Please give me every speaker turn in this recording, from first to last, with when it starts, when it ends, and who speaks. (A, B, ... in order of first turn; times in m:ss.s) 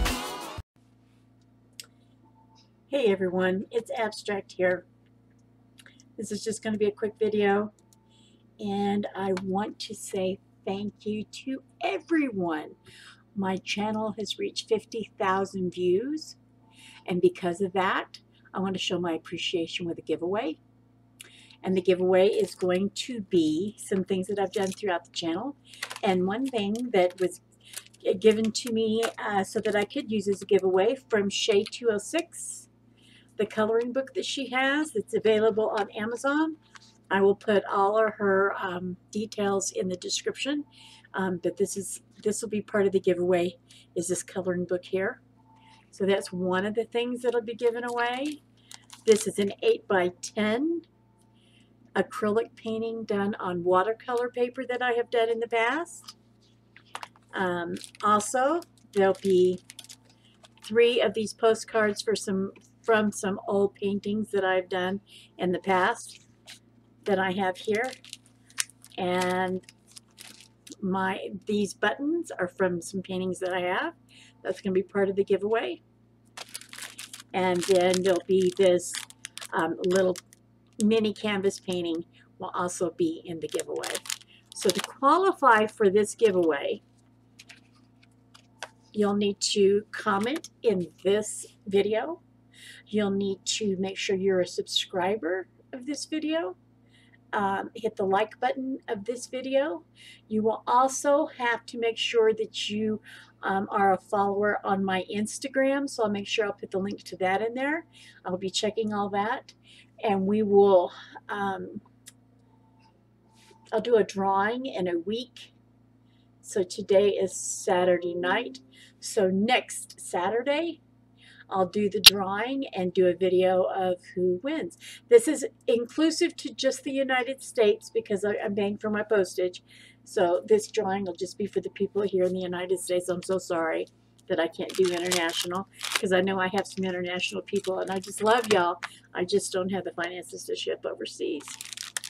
0:02.9-0:04.8 A
0:06.2-0:07.7 A
0:08.6-0:12.8 A
0:13.4-0:16.4 A
0:17.0-0:20.6 A
0:21.6-0:27.4 A
0:28.0-0:32.7 A
0:33.4-0:36.6 A
0:37.1-0:45.2 A
0:45.9-0:48.4 A
0:49.0-0:50.9 A
0:52.0-0:56.2 A
0:57.3-0:59.6 A
1:00.6-1:06.2 A
1:07.0-1:08.0 A
1:09.0-1:09.7 A
1:10.8-1:15.8 A
1:17.3-1:20.2 A
1:20.8-1:26.8 A
1:28.9-1:32.2 A
1:32.9-1:36.6 A
1:37.3-1:51.8 A
1:53.7-1:55.5 A
1:56.4-2:00.8 A
2:01.5-2:21.6 A